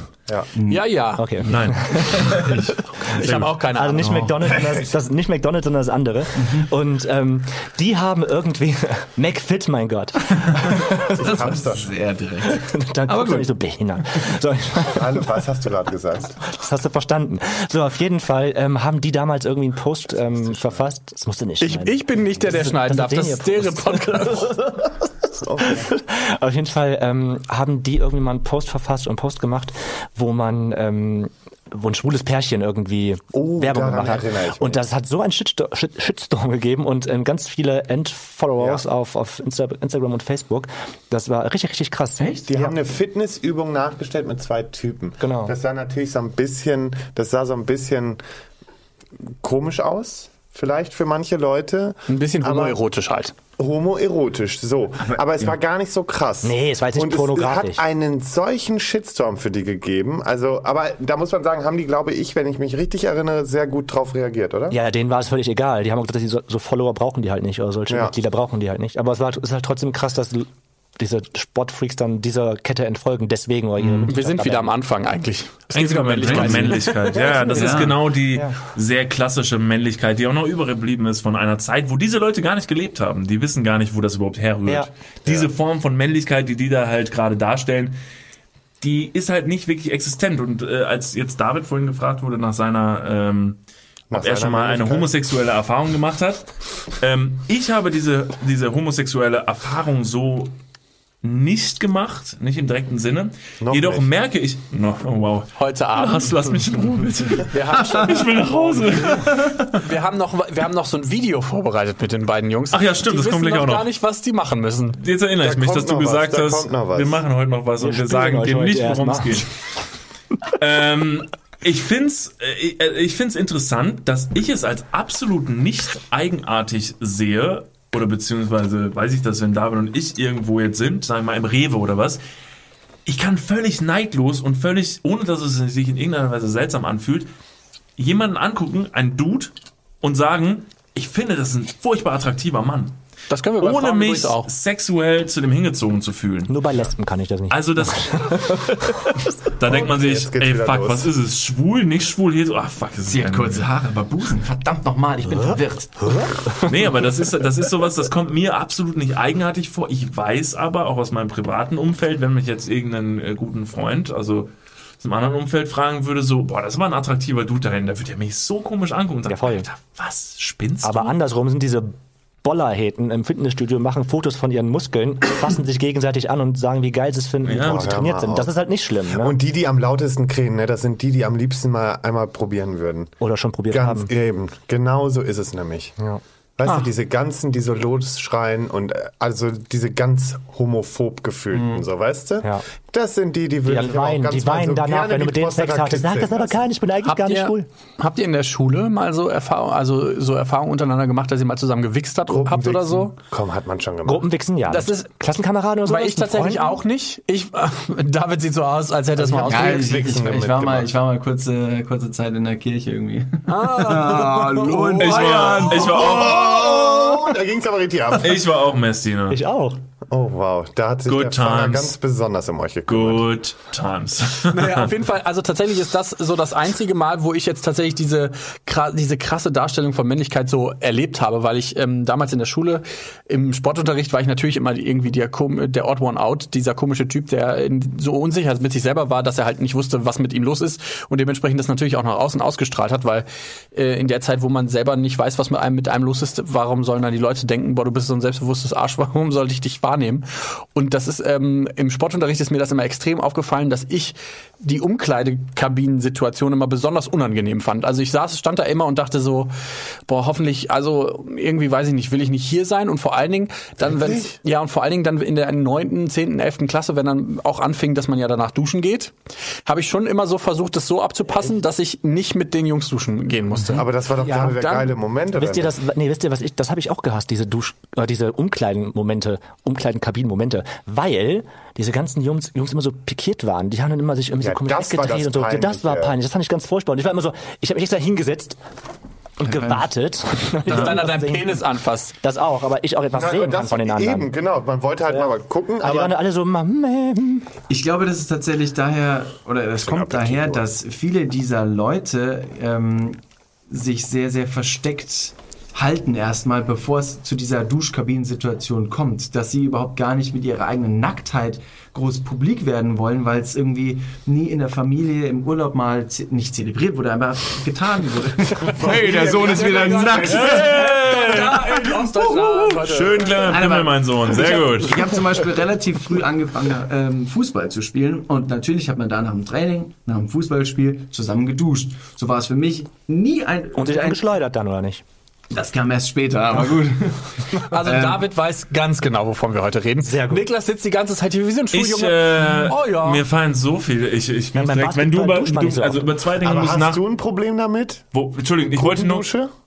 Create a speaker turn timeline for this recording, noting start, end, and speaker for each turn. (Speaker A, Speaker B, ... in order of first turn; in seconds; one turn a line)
Speaker A: 0.3-0.6
Speaker B: 0.6-0.8
Speaker C: 0.7-4.5
Speaker D: 1.1-2.4
Speaker E: 1.4-2.3
Speaker D: 3.1-11.0
Speaker B: 4.0-4.8
Speaker B: 11.0-13.5
Speaker A: 11.2-11.9
Speaker D: 12.5-15.3
Speaker A: 14.9-16.4
Speaker D: 16.5-42.8
Speaker C: 21.6-24.7
Speaker A: 25.4-25.9
Speaker A: 33.3-34.8
Speaker A: 38.6-38.8
Speaker B: 42.2-42.5
Speaker A: 42.5-48.2
Speaker D: 45.2-45.5
Speaker A: 49.4-52.8
Speaker C: 52.1-53.3
Speaker A: 53.6-64.8
Speaker B: 55.1-55.5
Speaker D: 56.4-57.8
Speaker D: 64.7-74.7
Speaker B: 73.8-74.1
Speaker C: 74.1-77.2
Speaker E: 75.7-88.0
Speaker B: 76.3-76.7
Speaker D: 77.2-78.6
Speaker B: 77.3-78.0
Speaker E: 88.8-93.6
Speaker A: 94.1-95.1
Speaker E: 94.1-100.5
Speaker E: 101.2-109.8
Speaker A: 103.6-104.1
Speaker C: 105.6-106.5
Speaker C: 107.5-115.0
Speaker B: 107.8-108.0
Speaker E: 112.7-113.9
Speaker E: 115.0-119.5
Speaker A: 115.4-117.2
Speaker D: 117.8-119.5
Speaker E: 120.5-132.2
Speaker E: 133.1-137.3
Speaker E: 138.0-143.0
Speaker C: 143.3-144.5
Speaker E: 143.6-146.6
Speaker D: 146.5-149.3
Speaker E: 147.5-148.4
Speaker E: 149.5-153.7
Speaker A: 149.6-151.1
Speaker B: 153.1-156.3
Speaker D: 156.0-156.9
Speaker E: 156.6-171.2
Speaker D: 169.3-169.7
Speaker D: 170.8-179.4
Speaker E: 177.4-178.0
Speaker A: 177.6-178.5
Speaker A: 179.1-183.1
Speaker D: 183.2-184.1
Speaker A: 183.7-186.0
Speaker A: 186.6-196.6
Speaker B: 191.5-191.8
Speaker D: 193.7-197.7
Speaker C: 197.0-203.2
Speaker A: 202.3-204.3
Speaker D: 204.1-206.8
Speaker C: 204.7-205.1
Speaker C: 205.8-209.8
Speaker A: 209.2-210.9
Speaker B: 209.5-217.1
Speaker C: 213.5-216.0
Speaker E: 215.0-216.5
Speaker A: 215.9-218.4
Speaker E: 218.2-219.4
Speaker D: 219.3-219.8
Speaker A: 220.1-223.3
Speaker E: 221.1-221.9
Speaker E: 222.9-224.9
Speaker C: 224.5-259.5
Speaker C: 260.1-269.1
Speaker A: 263.8-264.2
Speaker C: 269.6-274.9
Speaker A: 273.6-275.7
Speaker D: 274.2-274.7
Speaker D: 275.3-288.6
Speaker A: 284.4-286.1
Speaker D: 289.4-291.6
Speaker B: 289.4-289.9
Speaker C: 290.7-292.1
Speaker D: 292.2-294.3
Speaker A: 293.1-296.1
Speaker D: 295.1-297.5
Speaker B: 297.7-320.8
Speaker A: 299.8-300.7
Speaker A: 318.6-320.4
Speaker C: 318.8-323.5
Speaker E: 320.3-325.1
Speaker B: 323.4-334.3
Speaker D: 333.8-335.0
Speaker B: 335.5-338.3
Speaker C: 337.6-343.2
Speaker D: 340.0-340.5
Speaker E: 341.7-347.0
Speaker D: 344.5-346.1
Speaker A: 346.4-348.1
Speaker E: 348.1-349.3
Speaker A: 348.7-349.5